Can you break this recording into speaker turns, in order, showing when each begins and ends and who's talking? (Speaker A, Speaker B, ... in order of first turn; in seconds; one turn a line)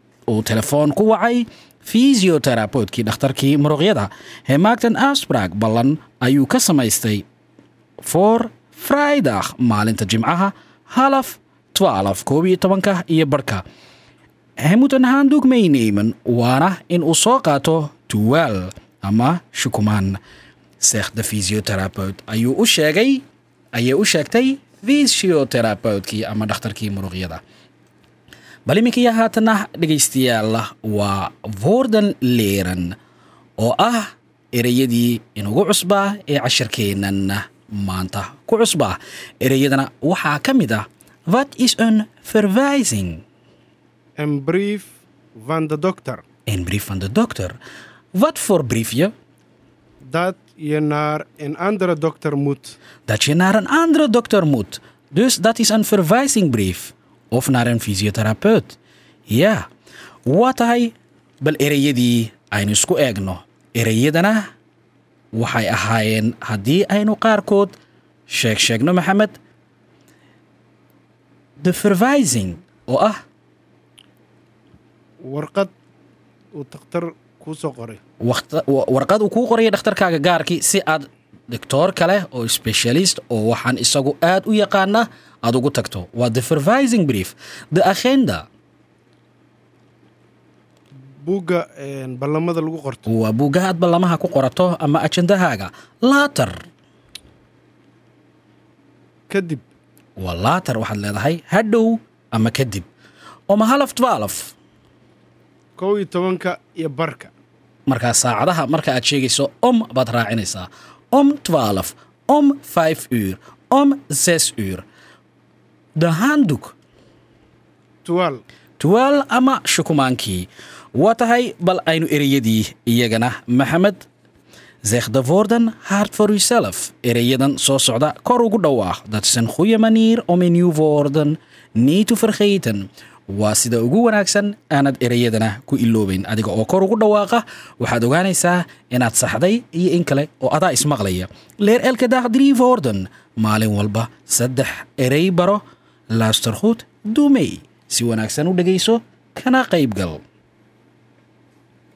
Speaker A: 0.3-7.2
Speaker A: 8.0-13.6
Speaker A: 14.6-20.2
Speaker A: 20.8-27.4
Speaker A: 28.7-33.0
Speaker A: 33.6-43.2
Speaker B: 44.2-46.2
Speaker A: 46.5-47.6
Speaker A: 48.1-49.1
Speaker B: 50.0-52.8
Speaker A: 53.1-58.8
Speaker A: 59.3-59.7
Speaker A: 60.3-64.5
Speaker A: 65.3-67.7
Speaker A: 68.3-69.3
Speaker A: 71.6-73.2
Speaker B: 75.2-75.7
Speaker B: 76.5-78.0
Speaker A: 78.2-88.5
Speaker B: 91.2-93.0
Speaker A: 93.1-96.6
Speaker B: 99.3-99.6
Speaker A: 100.2-102.9
Speaker A: 103.5-104.5
Speaker B: 105.8-107.3
Speaker A: 107.9-114.8
Speaker A: 116.0-116.7
Speaker B: 118.0-118.4
Speaker A: 118.8-124.0
Speaker A: 124.8-150.2